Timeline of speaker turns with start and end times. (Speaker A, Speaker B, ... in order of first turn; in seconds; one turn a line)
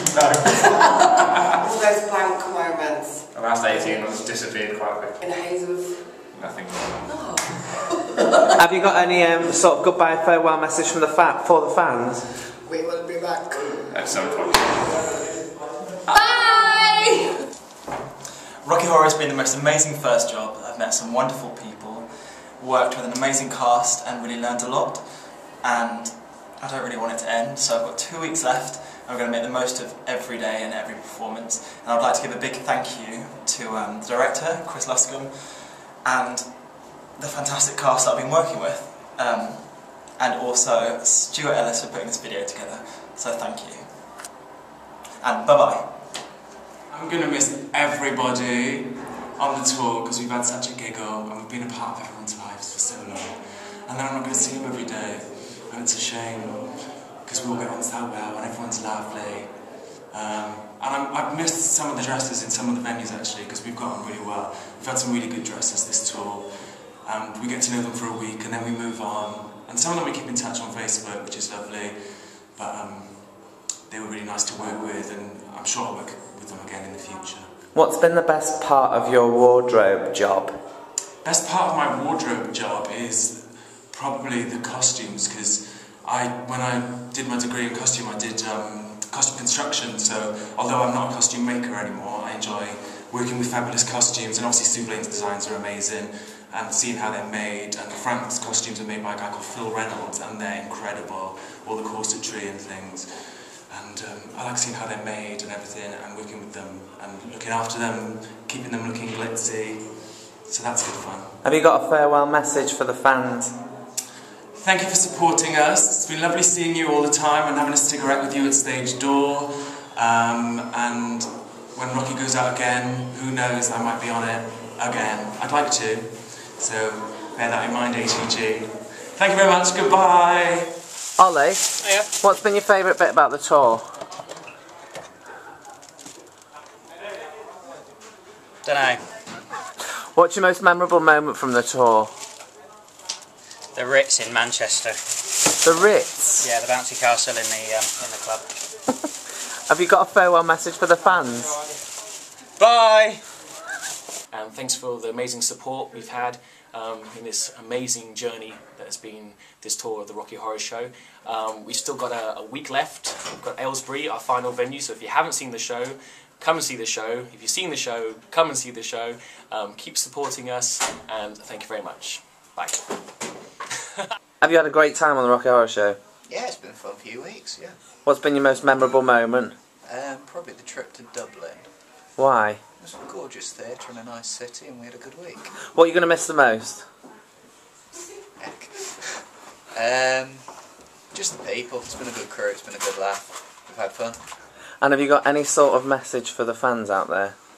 Speaker A: 0.5-4.3
Speaker B: 3.4-5.1
Speaker A: 5.1-6.4
Speaker B: 6.4-6.8
Speaker A: 7.0-8.5
Speaker C: 8.6-12.3
Speaker A: 12.6-14.6
Speaker A: 16.1-17.3
Speaker D: 18.6-43.8
Speaker D: 45.2-45.9
Speaker E: 46.9-77.5
Speaker C: 77.7-80.5
Speaker E: 81.2-111.4
Speaker C: 111.4-113.5
Speaker E: 114.5-130.8
Speaker C: 131.2-133.8
Speaker F: 138.6-139.0
Speaker C: 140.2-142.1
Speaker F: 143.8-145.0
Speaker C: 145.6-146.5
Speaker F: 146.4-148.5
Speaker C: 149.7-151.6
Speaker G: 152.6-153.2
Speaker G: 154.3-172.7
Speaker C: 174.4-176.0
Speaker H: 176.3-177.8
Speaker C: 178.1-179.6
Speaker H: 179.9-181.7
Speaker C: 182.2-182.6
Speaker H: 182.8-185.6
Speaker C: 185.7-186.8
Speaker H: 188.4-194.2
Speaker C: 194.8-197.3